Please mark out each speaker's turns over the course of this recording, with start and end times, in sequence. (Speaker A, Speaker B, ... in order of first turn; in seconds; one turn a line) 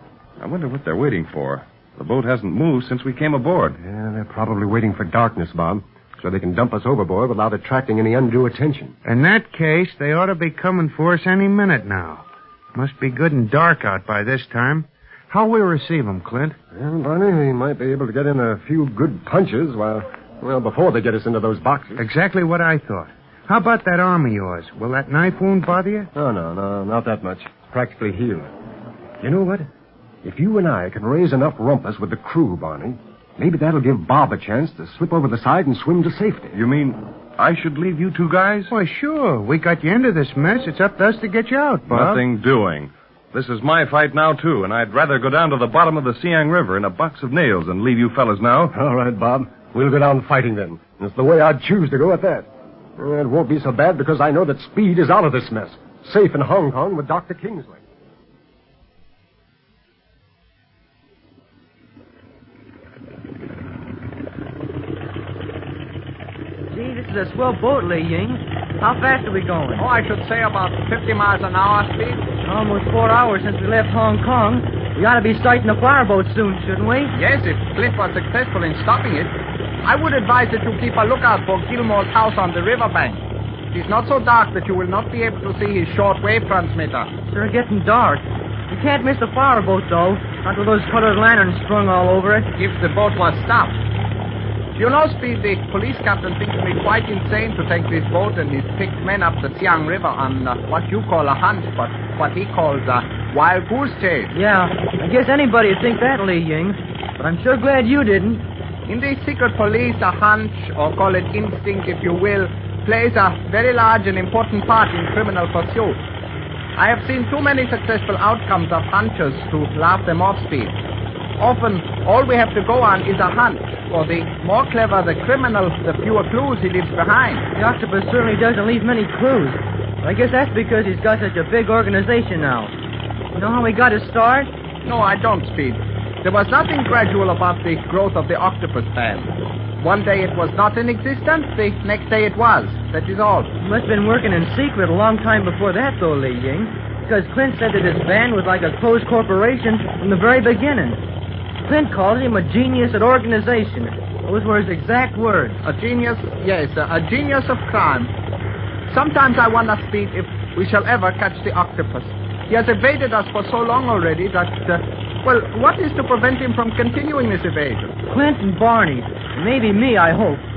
Speaker A: 0.4-3.8
Speaker B: 3.8-8.9
Speaker C: 9.1-16.6
Speaker B: 16.8-22.0
Speaker C: 22.0-26.1
Speaker B: 26.1-28.5
Speaker B: 29.2-29.7
Speaker B: 30.2-36.5
Speaker A: 36.5-38.7
Speaker C: 38.7-42.2
Speaker A: 41.9-48.7
Speaker B: 48.7-57.8
Speaker D: 66.7-69.9
Speaker E: 69.8-72.2
Speaker D: 72.4-77.1
Speaker E: 77.1-87.1
Speaker D: 87.3-92.5
Speaker E: 92.6-93.8
Speaker E: 94.8-104.3
Speaker D: 104.3-108.5
Speaker E: 108.9-116.0
Speaker E: 116.8-120.8
Speaker E: 121.4-127.5
Speaker D: 127.5-132.7
Speaker D: 133.3-134.5
Speaker E: 134.8-143.5
Speaker D: 143.6-151.0
Speaker D: 151.6-155.6
Speaker E: 155.7-158.1
Speaker E: 158.9-167.9
Speaker D: 168.1-170.4